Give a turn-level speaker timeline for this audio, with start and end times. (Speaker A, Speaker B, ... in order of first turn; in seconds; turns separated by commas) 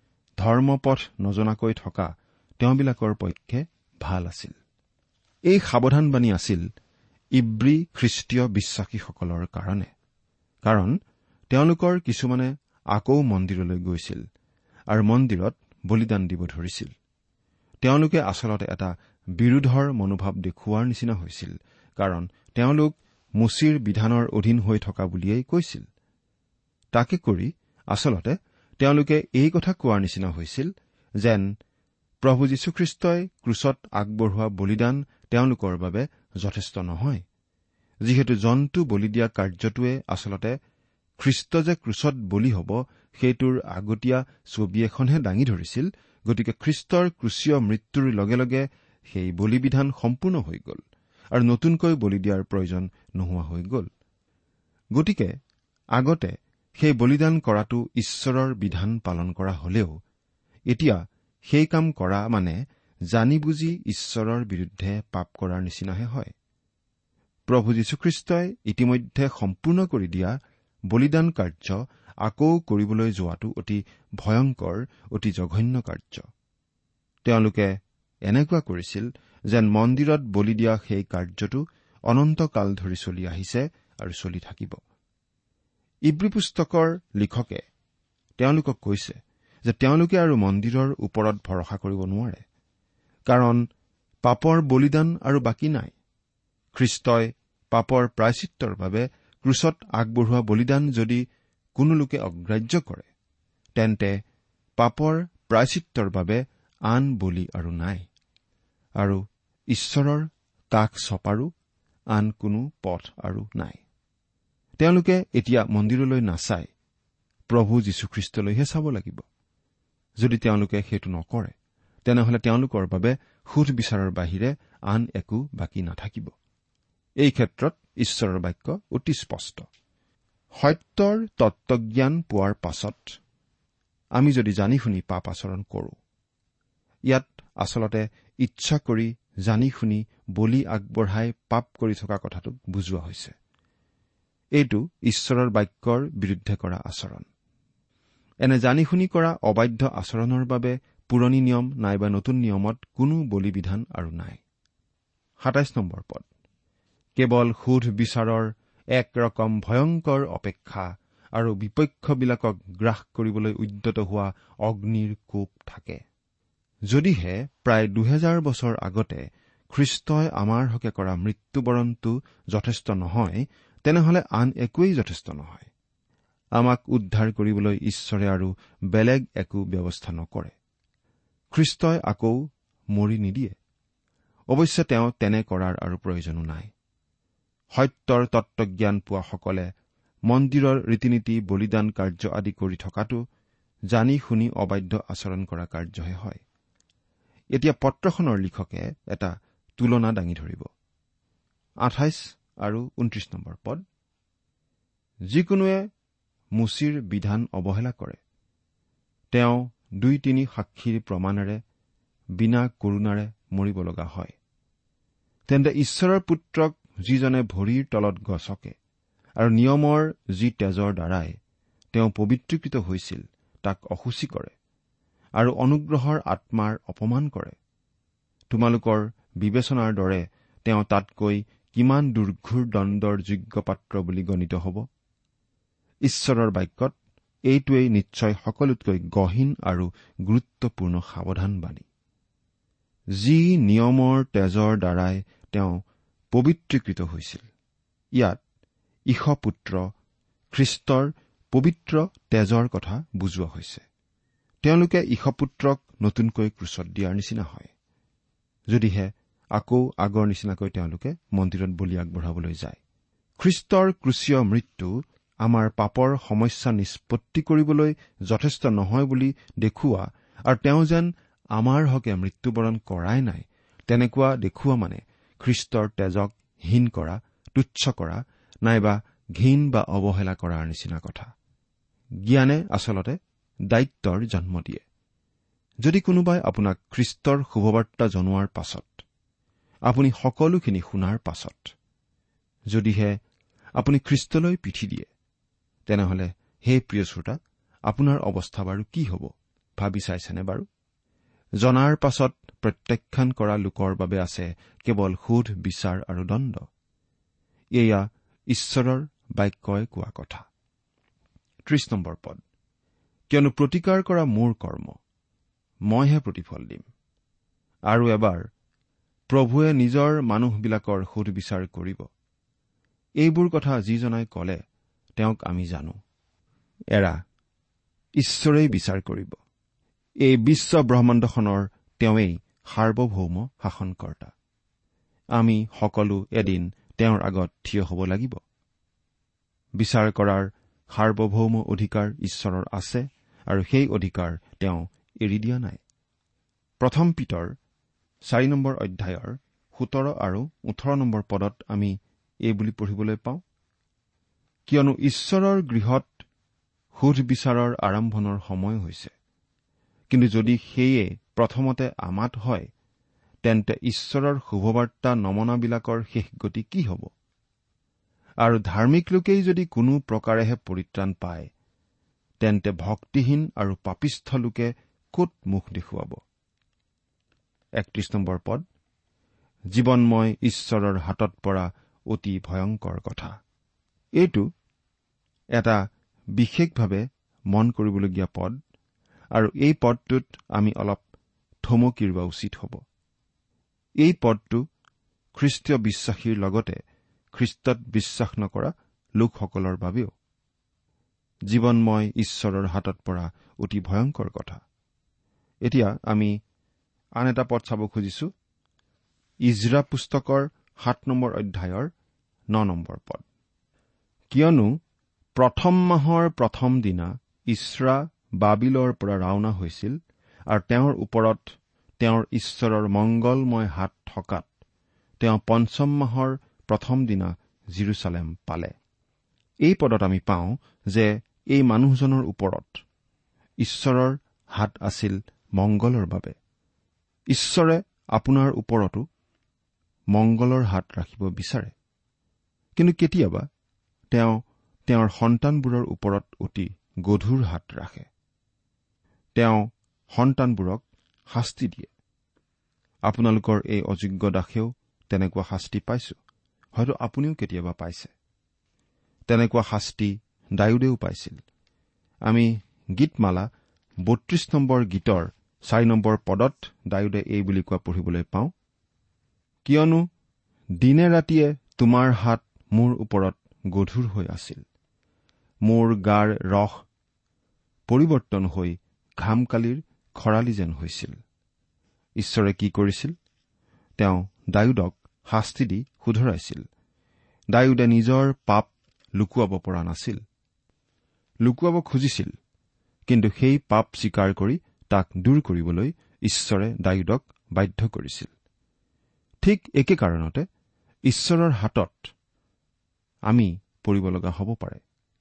Speaker A: 0.4-4.5, Speaker A: 5.5-6.7, Speaker A: 7.3-9.9, Speaker A: 10.6-11.0, Speaker A: 11.5-14.2, Speaker A: 14.9-16.9, Speaker A: 17.8-25.9, Speaker A: 26.9-31.5, Speaker A: 32.2-37.2, Speaker A: 38.0-40.6, Speaker A: 41.2-50.8, Speaker A: 51.3-53.9, Speaker A: 54.9-55.3, Speaker A: 56.0-60.0, Speaker A: 60.7-62.6, Speaker A: 63.1-66.3, Speaker A: 67.5-70.4, Speaker A: 70.9-76.3, Speaker A: 77.2-84.8, Speaker A: 86.1-87.6, Speaker A: 88.4-92.4, Speaker A: 93.3-93.6, Speaker A: 94.2-95.9, Speaker A: 96.7-101.2, Speaker A: 101.8-103.1, Speaker A: 103.8-104.2, Speaker A: 104.8-108.0, Speaker A: 109.0-111.5, Speaker A: 112.1-113.8, Speaker A: 114.8-116.7, Speaker A: 117.5-119.2, Speaker A: 120.2-126.3, Speaker A: 127.2-129.7, Speaker A: 130.6-133.2, Speaker A: 134.2-136.0, Speaker A: 137.1-143.3, Speaker A: 144.6-147.2, Speaker A: 148.4-154.4, Speaker A: 155.4-156.2, Speaker A: 157.2-166.0, Speaker A: 166.9-175.7, Speaker A: 176.6-180.5, Speaker A: 181.5-182.4, Speaker A: 182.9-183.6, Speaker A: 184.5-186.7, Speaker A: 187.7-189.7, Speaker A: 190.3-193.2, Speaker A: 193.9-196.4, Speaker A: 197.5-200.7, Speaker A: 201.8-203.8, Speaker A: 205.3-205.9, Speaker A: 206.6-208.2, Speaker A: 209.3-211.6, Speaker A: 212.4-214.3, Speaker A: 215.5-218.8, Speaker A: 219.4-221.4, Speaker A: 221.9-224.5, Speaker A: 225.4-227.6, Speaker A: 228.5-234.8, Speaker A: 236.0-236.9, Speaker A: 237.5-241.8, Speaker A: 243.2-245.8, Speaker A: 246.3-247.5, Speaker A: 248.1-248.4, Speaker A: 249.1-249.9, Speaker A: 250.5-253.8, Speaker A: 254.6-257.7, Speaker A: 258.7-262.8, Speaker A: 263.4-264.9, Speaker A: 265.4-281.3, Speaker A: 282.2-283.2, Speaker A: 283.7-284.8, Speaker A: 285.8-289.0, Speaker A: 289.9-291.7, Speaker A: 292.7-293.2, Speaker A: 293.8-295.1, Speaker A: 295.9-300.7, Speaker A: 301.6-306.7, Speaker A: 307.7-310.4, Speaker A: 311.6-312.4, Speaker A: 313.3-315.0, Speaker A: 315.9-316.9, Speaker A: 317.9-318.5, Speaker A: 319.3-322.1, Speaker A: 323.2-324.6, Speaker A: 325.2-326.0, Speaker A: 326.9-327.2, Speaker A: 328.2-329.4, Speaker A: 330.2-334.3, Speaker A: 335.4-338.4, Speaker A: 339.8-345.8, Speaker A: 346.8-347.5, Speaker A: 348.3-351.9, Speaker A: 352.5-353.4, Speaker A: 354.7-356.1, Speaker A: 356.9-359.1, Speaker A: 360.1-362.7, Speaker A: 363.4-367.1, Speaker A: 368.4-371.5, Speaker A: 372.4-376.2, Speaker A: 377.8-378.6, Speaker A: 379.7-383.3, Speaker A: 384.2-384.5, Speaker A: 386.4-388.6, Speaker A: 389.3-391.0, Speaker A: 391.6-392.8, Speaker A: 394.0-394.6, Speaker A: 395.3-396.8, Speaker A: 397.3-400.1, Speaker A: 401.5-404.6, Speaker A: 405.6-406.3, Speaker A: 407.2-408.3, Speaker A: 409.5-411.9, Speaker A: 412.5-413.2, Speaker A: 414.3-414.7, Speaker A: 415.4-420.0, Speaker A: 420.5-424.5, Speaker A: 425.2-428.7, Speaker A: 429.6-432.8, Speaker A: 433.6-436.4, Speaker A: 437.3-439.1, Speaker A: 440.1-441.7, Speaker A: 442.8-443.4, Speaker A: 444.1-448.1, Speaker A: 449.3-451.9, Speaker A: 453.1-456.2, Speaker A: 456.7-458.1, Speaker A: 459.3-461.4, Speaker A: 462.3-463.5, Speaker A: 464.1-468.5, Speaker A: 469.6-470.1, Speaker A: 470.8-474.6, Speaker A: 475.6-476.8, Speaker A: 477.9-481.2, Speaker A: 482.2-483.1, Speaker A: 484.0-486.6, Speaker A: 487.5-490.2, Speaker A: 491.4-492.3, Speaker A: 493.1-498.3, Speaker A: 499.4-500.4, Speaker A: 501.1-502.1, Speaker A: 503.3-504.8